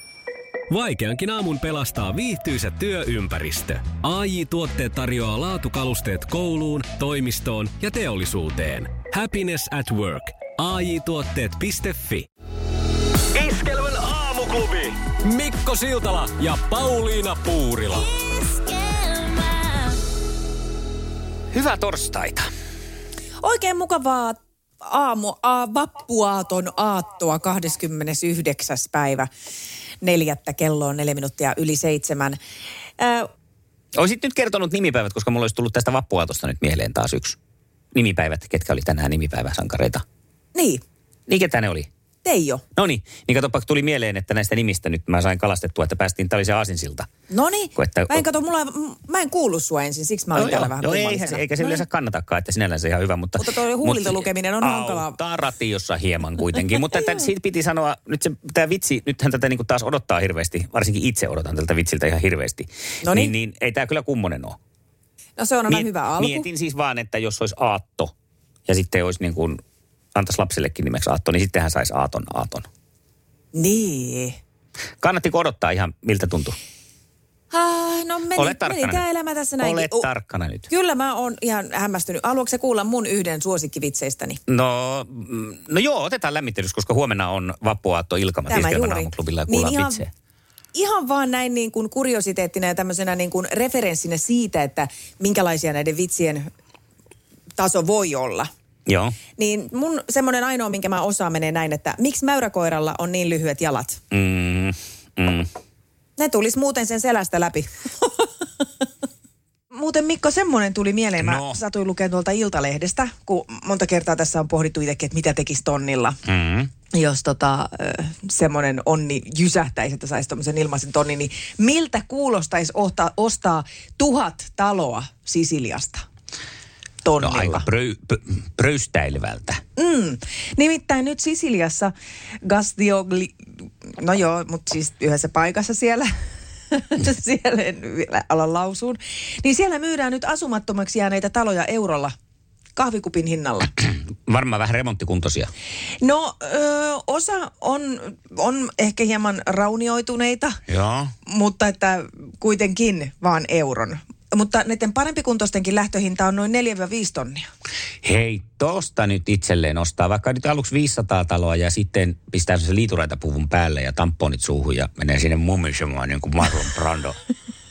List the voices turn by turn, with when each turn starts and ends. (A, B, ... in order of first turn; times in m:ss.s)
0:00.7-0:12.3 A
0:13.4-0:18.1 A
0:21.5-0:22.5 B
0:23.4-0:29.3 C
0:30.0-0:32.4 C
0:33.0-0:33.3 C
0:34.0-0:37.4 B
0:37.9-0:40.0 B
0:40.6-0:40.8 C
0:41.3-0:41.9 B
0:42.2-0:42.6 C
0:42.8-0:47.1 B
0:47.3-0:51.8 C
0:47.8-0:48.2 B
0:50.4-1:04.6 B
0:53.4-0:55.2 C
1:03.0-1:03.3 C
1:05.4-1:06.5 C
1:05.7-1:08.1 B
1:08.7-1:09.6 B
1:10.2-1:12.7 B
1:13.5-1:14.4 C
1:15.0-1:16.6 B
1:17.5-1:20.1 C
1:18.4-1:19.0 B
1:19.6-1:20.7 B
1:20.7-1:24.4 C
1:24.5-1:30.1 B
1:28.5-1:30.0 C
1:30.7-1:36.5 C
1:37.6-1:38.5 C
1:38.9-1:39.2 B
1:39.4-1:44.0 C
1:44.1-1:45.5 B
1:46.2-1:48.3 C
1:49.7-1:56.2 C
1:51.2-1:51.6 B
1:56.3-1:56.7 B
1:56.9-2:06.0 C
2:07.0-2:07.7 C
2:07.2-2:09.6 B
2:09.8-2:11.9 C
2:12.4-2:16.1 C
2:16.7-2:22.1 C
2:22.8-2:23.7 C
2:23.8-2:25.5 B
2:26.0-2:30.6 C
2:30.7-2:31.1 B
2:31.3-2:37.5 C
2:38.0-2:47.2 B